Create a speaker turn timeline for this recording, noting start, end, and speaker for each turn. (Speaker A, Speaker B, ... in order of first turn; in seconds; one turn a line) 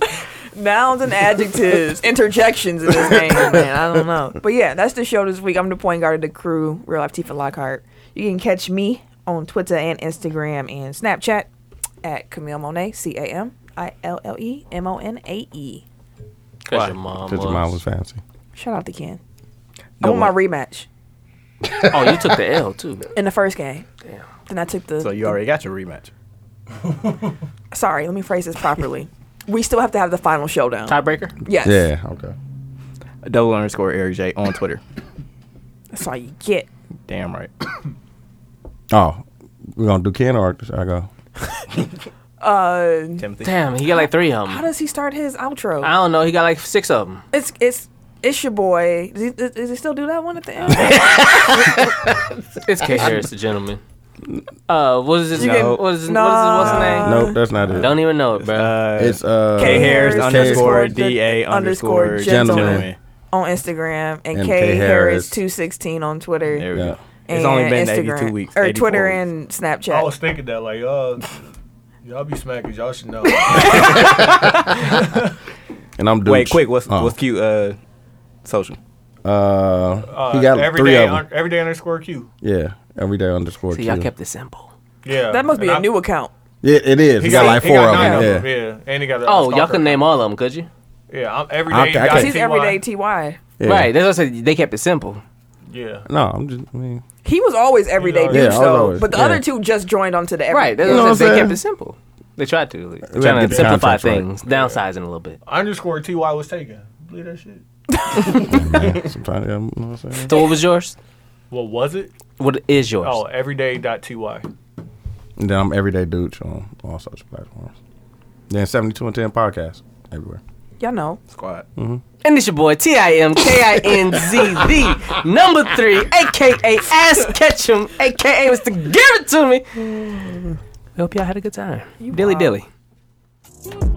Speaker A: 0.2-11.5
Speaker B: 2.9-3.8
Speaker A: 12.0-15.8
Speaker C: 16.7-17.7
Speaker D: 16.7-16.9
Speaker B: 17.3-18.2
Speaker A: 18.6-19.2
Speaker D: 20.0-20.4
Speaker A: 20.0-20.9
Speaker B: 21.6-22.4
Speaker C: 21.9-23.1
Speaker A: 23.1-23.9
Speaker A: 24.5-25.4
Speaker D: 25.0-26.1
Speaker A: 27.7-31.9
Speaker C: 30.9-31.4
Speaker B: 31.6-32.4
Speaker D: 33.2-34.8
Speaker A: 35.9-36.7
Speaker D: 37.1-37.5
Speaker B: 38.9-41.1
Speaker A: 42.4-43.3
Speaker D: 43.2-43.5
Speaker C: 43.4-44.6
Speaker A: 43.9-45.9
Speaker C: 45.8-47.2
Speaker A: 47.3-51.4
Speaker B: 50.8-51.7
Speaker C: 52.6-53.8
Speaker C: 54.7-57.1
Speaker D: 55.3-55.8
Speaker A: 55.4-57.4
Speaker B: 57.0-58.0
Speaker C: 57.7-58.8
Speaker D: 58.4-63.0
Speaker B: 59.0-61.0
Speaker A: 59.6-66.7
Speaker B: 62.0-62.9
Speaker B: 64.3-65.4
Speaker D: 66.5-69.2
Speaker A: 67.3-70.1
Speaker E: 69.9-71.3
Speaker E: 72.0-75.3
Speaker B: 76.0-77.2
Speaker D: 76.2-77.8
Speaker D: 78.4-78.8
Speaker B: 79.2-81.3
Speaker E: 80.1-82.3
Speaker B: 82.4-84.1
Speaker C: 83.7-84.7
Speaker E: 85.0-85.9
Speaker A: 85.3-86.3
Speaker B: 86.6-88.5
Speaker E: 87.2-90.0
Speaker A: 87.3-88.3
Speaker C: 89.2-90.7
Speaker E: 91.1-92.8
Speaker B: 91.7-92.4
Speaker A: 92.0-93.4
Speaker B: 93.6-93.9
Speaker C: 93.6-95.2
Speaker E: 95.7-96.1
Speaker B: 96.1-97.0
Speaker A: 97.2-101.2
Speaker E: 98.0-98.9
Speaker B: 98.3-99.4
Speaker C: 100.5-105.4
Speaker B: 100.8-101.6
Speaker B: 103.1-104.3
Speaker E: 103.4-103.8
Speaker E: 104.5-104.8
Speaker E: 105.5-107.6
Speaker A: 108.0-108.5
Speaker B: 108.3-110.4
Speaker C: 110.2-111.0
Speaker E: 111.5-112.1
Speaker C: 112.4-113.2
Speaker E: 113.0-114.5
Speaker B: 115.4-117.7
Speaker B: 118.5-120.4
Speaker A: 120.8-121.2
Speaker D: 121.3-121.7
Speaker B: 121.8-122.0
Speaker C: 122.2-132.7
Speaker A: 132.0-132.6